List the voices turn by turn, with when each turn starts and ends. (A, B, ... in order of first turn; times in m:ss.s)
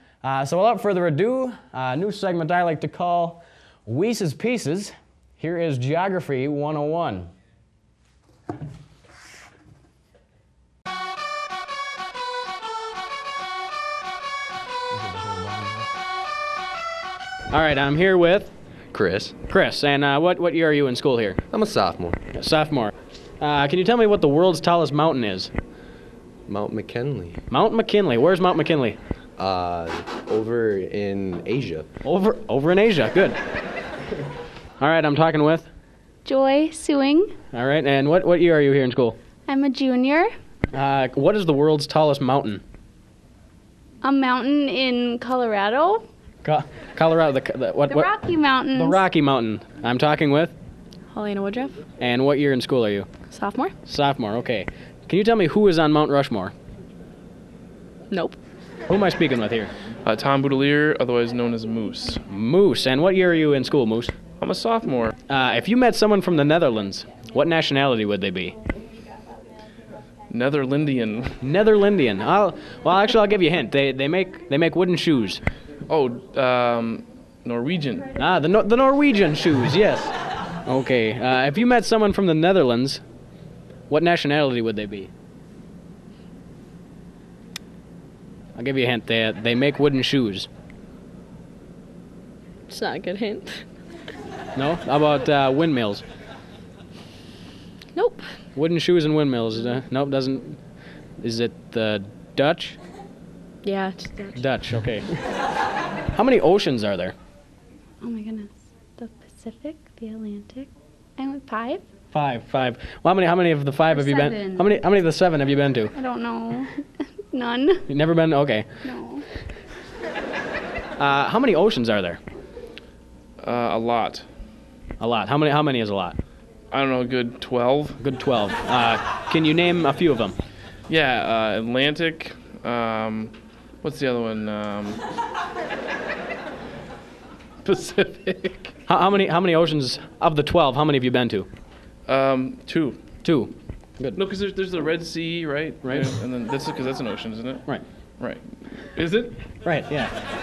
0:00.2-0:07.3 A
0:17.5-0:18.5 A
0:18.9-0:19.3 B
0:19.5-0:21.4 A
0:21.5-0:22.2 B
0:22.3-0:25.5 A
0:26.5-0:27.4 B
0:27.5-0:29.0 A
0:29.4-0:31.9 B
0:32.0-0:33.4 A
0:34.8-0:35.7 A
0:36.2-0:37.4 C
0:37.5-0:39.2 A
0:39.4-0:40.3 C
0:40.7-0:42.6 A
0:44.0-0:46.0 C
0:46.4-0:48.1 A
0:47.9-0:49.0 C
0:48.7-0:50.5 A
0:51.1-0:51.8 D
0:52.0-0:53.1 A
0:53.3-0:53.7 D
0:53.8-0:56.5 A
0:58.1-0:58.4 D
0:58.9-0:59.7 A
1:00.0-1:02.2 E
1:02.3-1:04.1 A
1:04.4-1:05.1 E
1:05.3-1:08.5 A
1:10.3-1:11.4 E
1:11.4-1:15.4 A
1:15.9-1:18.1 E
1:18.2-1:20.1 A
1:20.6-1:23.0 A
1:23.9-1:25.1 A
1:28.6-1:30.5 A
1:32.7-1:33.6 D
1:34.5-1:36.0 A
1:37.9-1:38.3 D
1:38.5-1:40.6 A
1:41.2-1:42.8 A
1:43.6-1:44.4 D
1:44.4-1:45.2 A
1:46.1-1:47.1 A
1:48.0-1:51.8 C
1:52.1-1:55.9 A
1:53.9-1:54.7 C
1:55.9-1:57.8 C
1:57.9-1:58.6 A
1:58.8-1:59.2 C
2:01.0-2:02.2 A
2:03.4-2:04.2 E
2:05.0-2:06.2 A
2:06.7-2:08.0 E
2:08.0-2:10.4 A
2:10.9-2:15.0 E
2:17.6-2:18.7 E
2:18.9-2:21.5 A
2:22.0-2:23.0 E
2:23.2-2:24.2 A
2:24.1-2:27.6 E
2:25.8-2:26.1 A
2:28.2-2:29.4 E
2:29.6-2:30.1 A